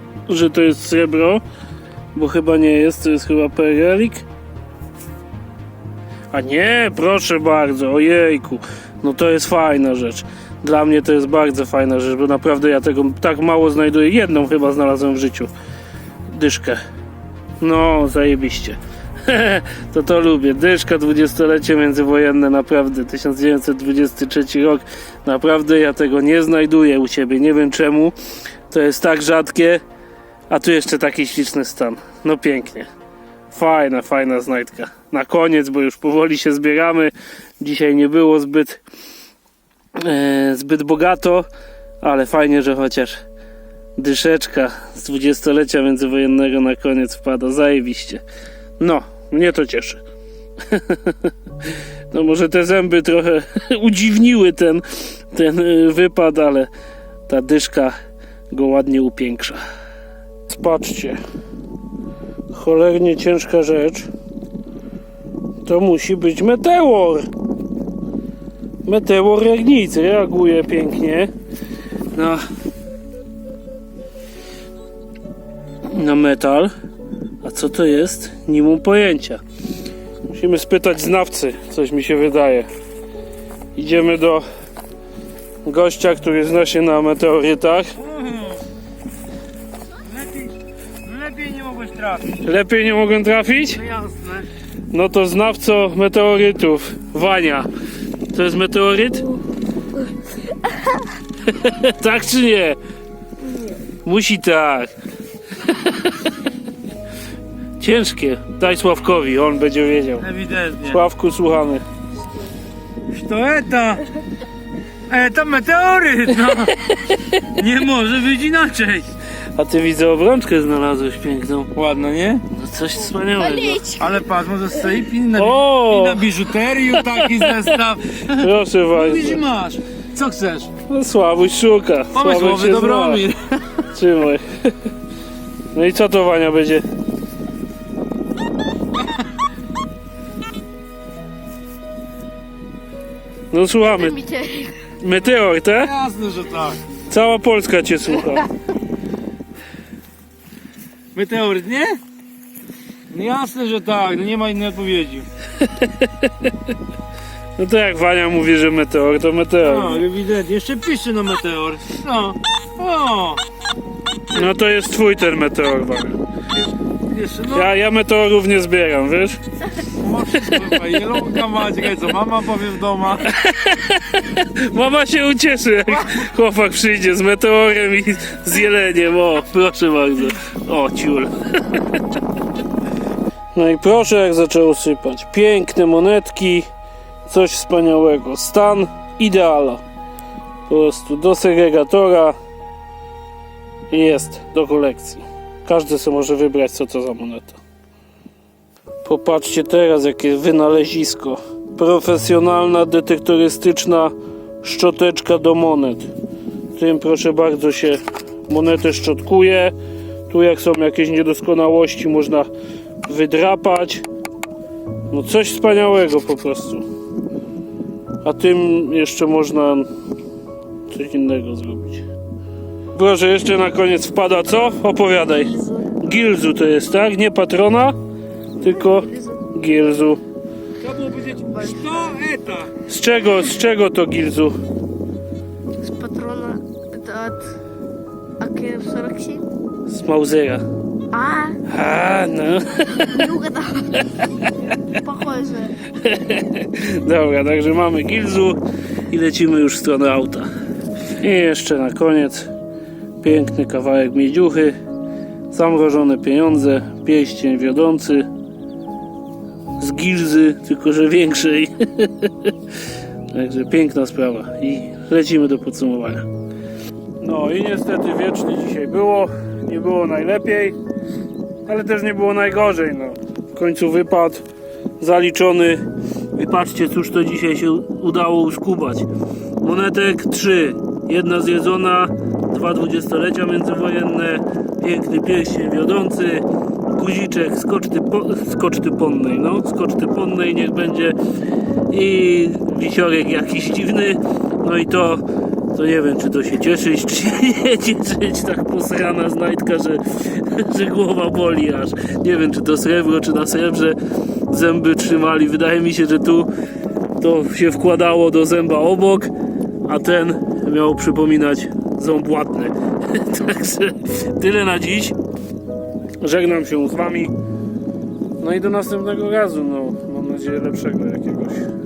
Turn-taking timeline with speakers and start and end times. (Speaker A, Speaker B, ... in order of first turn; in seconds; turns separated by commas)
Speaker A: 0.3-1.4, Speaker A: 2.1-4.2, Speaker A: 6.3-15.5, Speaker A: 16.3-16.8, Speaker A: 17.6-28.1, Speaker A: 28.7-29.8, Speaker A: 30.5-32.9, Speaker A: 33.5-38.8, Speaker A: 40.0-41.5, Speaker A: 42.0-43.2, Speaker A: 44.0-48.2, Speaker A: 48.8-50.0, Speaker A: 50.7-51.3, Speaker A: 52.1-56.7, Speaker A: 57.3-57.9, Speaker A: 58.5-59.6, Speaker A: 60.5-61.2, Speaker A: 62.5-64.1, Speaker A: 65.6-67.3, Speaker A: 68.8-71.3, Speaker A: 72.1-72.4, Speaker A: 75.9-76.7, Speaker A: 77.4-79.4, Speaker A: 80.3-82.7, Speaker A: 83.7-84.4, Speaker A: 85.6-87.9, Speaker B: 88.0-88.6, Speaker B: 90.0-92.3, Speaker A: 92.4-93.8, Speaker B: 93.7-94.5, Speaker A: 94.9-97.7, Speaker A: 98.3-99.3, Speaker A: 101.4-102.8, Speaker A: 104.0-104.9, Speaker A: 105.6-106.1, Speaker A: 107.8-110.3, Speaker B: 110.2-111.0, Speaker A: 110.8-111.8, Speaker B: 113.1-114.0, Speaker B: 115.1-116.8, Speaker B: 117.4-119.1, Speaker A: 119.5-121.7, Speaker B: 121.8-122.4, Speaker A: 122.5-123.9, Speaker C: 123.4-124.1, Speaker B: 123.9-130.7, Speaker A: 125.3-126.3, Speaker A: 127.0-127.7, Speaker A: 128.3-129.4, Speaker A: 130.9-133.2, Speaker B: 132.1-133.6, Speaker A: 133.8-134.4, Speaker A: 135.7-136.8, Speaker A: 143.5-144.2, Speaker C: 143.9-144.8, Speaker A: 144.9-145.9, Speaker B: 145.8-146.8, Speaker A: 147.1-148.5, Speaker B: 151.1-152.0, Speaker B: 153.1-155.3, Speaker A: 155.6-156.5, Speaker A: 157.6-160.0, Speaker B: 159.6-163.4, Speaker A: 164.3-166.2, Speaker B: 166.6-167.7, Speaker A: 167.5-169.4, Speaker B: 170.0-173.3, Speaker A: 173.2-182.0, Speaker A: 183.5-186.7, Speaker A: 187.2-189.8, Speaker A: 190.7-192.3, Speaker A: 193.9-197.6, Speaker A: 199.0-206.1, Speaker A: 206.7-209.7, Speaker A: 210.3-212.5, Speaker A: 213.0-214.0, Speaker A: 215.1-216.8, Speaker A: 218.2-219.9, Speaker A: 220.9-222.0, Speaker A: 222.9-227.9, Speaker C: 225.6-225.8, Speaker A: 228.6-230.2, Speaker C: 228.6-229.4, Speaker B: 230.8-232.7, Speaker C: 231.5-232.0, Speaker A: 232.8-234.5, Speaker C: 235.8-237.4, Speaker C: 238.4-239.4, Speaker A: 239.9-240.6, Speaker C: 241.1-241.6, Speaker A: 241.7-243.4, Speaker C: 243.1-244.0, Speaker C: 244.8-245.8, Speaker A: 245.9-250.5, Speaker A: 251.2-252.5, Speaker A: 253.2-254.7, Speaker A: 255.5-258.3, Speaker A: 259.8-262.5, Speaker A: 263.3-266.2, Speaker A: 267.2-270.8, Speaker A: 271.6-274.4, Speaker A: 275.0-275.8, Speaker A: 276.3-279.1, Speaker A: 279.6-291.1, Speaker A: 291.9-304.0, Speaker A: 304.5-306.5, Speaker A: 307.2-309.3, Speaker A: 309.8-315.1, Speaker A: 316.2-317.3, Speaker A: 318.4-321.7